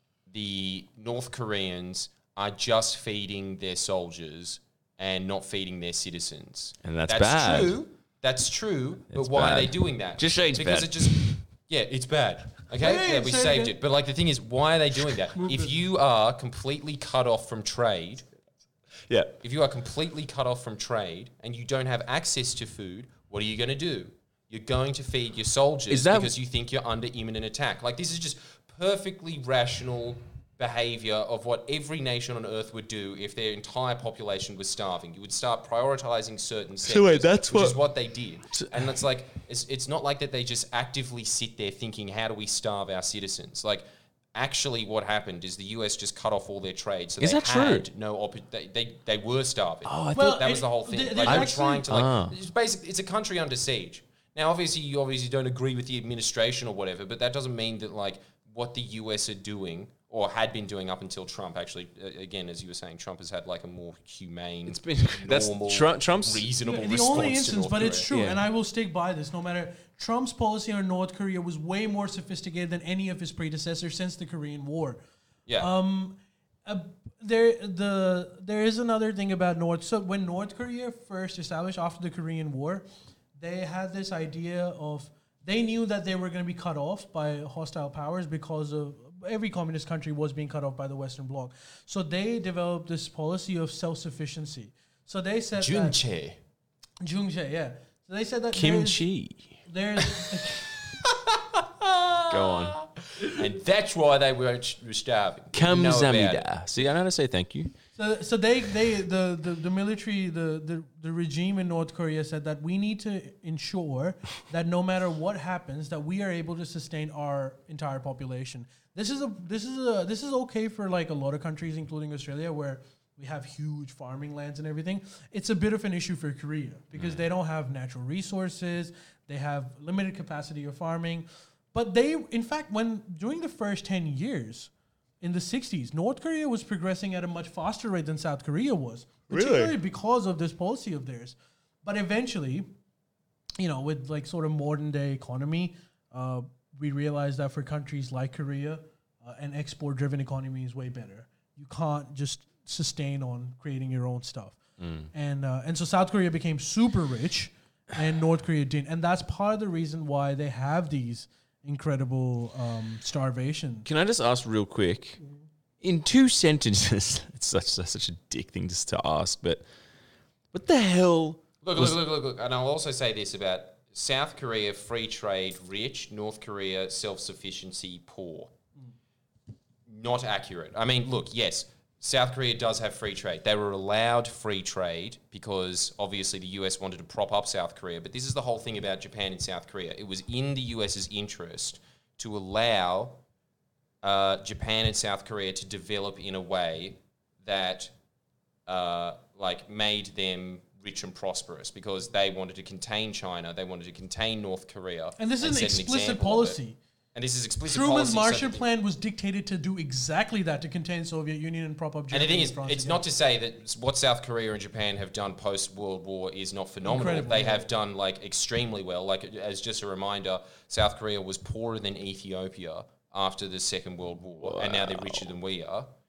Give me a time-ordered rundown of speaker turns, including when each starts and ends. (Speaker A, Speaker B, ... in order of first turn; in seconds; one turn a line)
Speaker A: 0.3-18.2
Speaker B: 6.8-7.8
Speaker B: 9.1-11.4
Speaker C: 12.8-13.7
Speaker C: 15.3-15.8
Speaker B: 19.1-19.4
Speaker A: 19.4-68.0
Speaker B: 25.9-26.3
Speaker B: 36.8-37.8
Speaker B: 38.5-38.9
Speaker B: 47.2-47.9
Speaker B: 49.8-50.4
Speaker C: 50.1-51.9
Speaker B: 51.2-52.4
Speaker B: 64.7-66.5
Speaker C: 66.6-75.0
Speaker B: 68.1-68.4
Speaker A: 75.5-75.7
Speaker C: 75.6-82.8
Speaker C: 83.4-96.0
Speaker A: 95.6-96.4
Speaker C: 97.0-99.0
Speaker B: 98.5-99.6
Speaker C: 99.6-100.6
Speaker A: 101.0-106.4
Speaker B: 102.3-102.8
Speaker B: 105.5-107.7
Speaker C: 108.0-142.7
Speaker B: 126.9-127.2
Speaker B: 139.3-139.8
Speaker C: 143.6-154.6
Speaker B: 154.8-155.1
Speaker C: 155.1-163.9
Speaker B: 163.8-165.2
Speaker B: 165.8-169.6
Speaker B: 170.5-172.0
Speaker A: 171.6-178.5
Speaker A: 179.9-193.2
Speaker A: 194.0-197.9
Speaker A: 198.7-206.6
Speaker C: 205.2-206.8
Speaker A: 207.1-208.7
Speaker C: 207.7-213.0
Speaker A: 212.1-225.9
Speaker C: 216.8-217.7
Speaker B: 224.4-225.3